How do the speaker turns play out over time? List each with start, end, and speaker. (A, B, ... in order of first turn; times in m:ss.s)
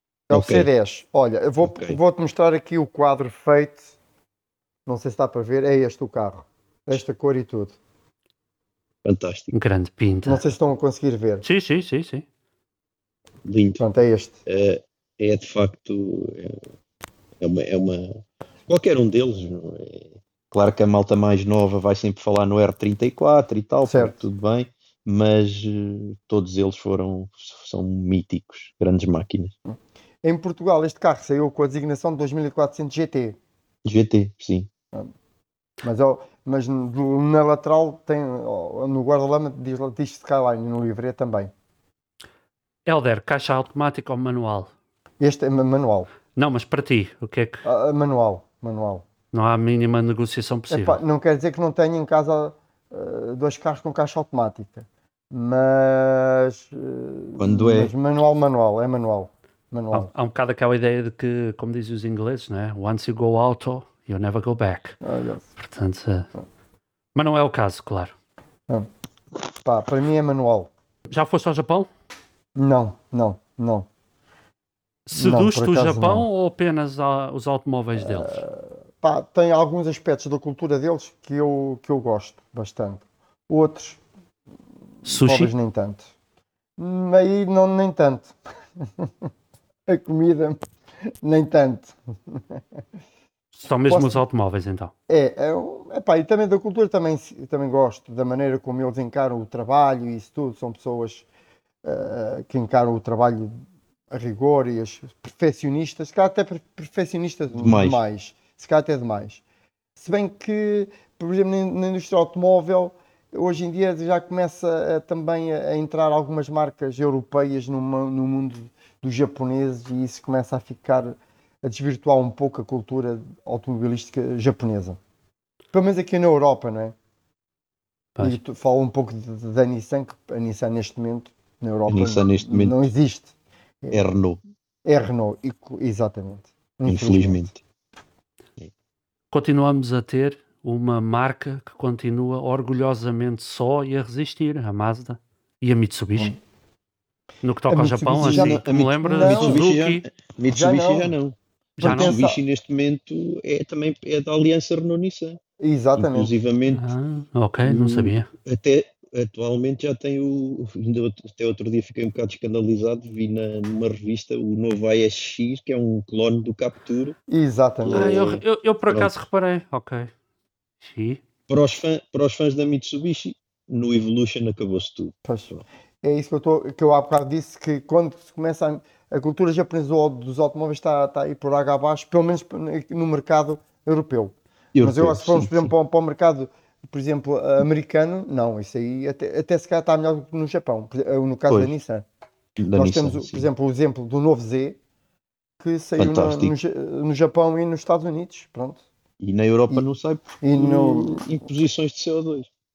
0:00.3-0:03.9 A
0:00.3-0:00.7 B
0:01.6-0:02.0 B
0:04.9-0:07.8 A
0:09.0-0:09.5 B
0:09.5-0:10.4 C
0:10.3-0:11.4 A
0:11.4-0:12.2 C
0:13.4-0:13.8 B
0:13.8-0:14.4 A
0:14.5-0:16.6 B
0:17.4-0:29.5 B
0:23.8-0:24.2 A
0:29.7-0:33.4 A
0:33.8-0:34.7 B
0:35.8-0:41.5 A
0:42.9-0:44.7 C
0:45.2-0:46.1 A
0:46.4-0:47.6 C
0:47.6-0:49.1 A
0:49.3-0:51.0 C
0:50.7-1:00.1 A
0:57.4-0:57.9 B
0:59.9-1:05.0 C
1:05.0-1:05.5 A
1:05.6-1:06.3 C
1:07.2-1:08.1 C
1:09.6-1:10.7 A
1:11.1-1:11.9 C
1:12.6-1:13.9 A
1:15.1-1:18.4 C
1:15.2-1:16.3 A
1:18.0-1:24.0 A
1:25.0-1:25.5 C
1:25.1-1:26.1 A
1:26.8-1:29.3 A
1:29.9-1:30.6 A
1:31.2-1:32.6 A
1:33.6-1:34.9 C
1:33.9-1:34.2 A
1:35.1-1:41.3 A
1:41.8-1:43.5 A
1:44.1-1:49.4 A
1:47.5-1:48.0 B
1:50.0-2:05.0 A
2:05.7-2:07.0 A
2:08.2-2:14.0 A
2:11.9-2:12.8 B
2:13.9-2:14.4 B
2:14.8-2:17.5 A
2:16.9-2:17.6 B
2:19.3-2:26.4 C
2:27.4-2:30.0 C
2:27.7-2:29.6 A
2:28.2-2:35.4 B
2:30.5-2:31.2 A
2:31.8-2:32.2 C
2:31.8-2:32.4 A
2:35.6-2:36.3 A
2:36.0-2:36.9 B
2:36.7-2:38.3 C
2:37.6-2:47.2 B
2:47.3-2:48.2 A
2:47.8-2:49.1 B
2:47.9-2:50.1 C
2:50.8-2:51.2 C
2:51.5-2:55.6 B
2:55.3-2:55.5 A
2:56.0-3:12.1 A
3:04.8-3:05.7 B
3:12.6-3:13.5 B
3:12.8-3:14.8 A
3:15.6-3:18.8 A
3:16.0-3:16.6 B
3:19.2-3:22.5 B
3:20.4-3:21.2 A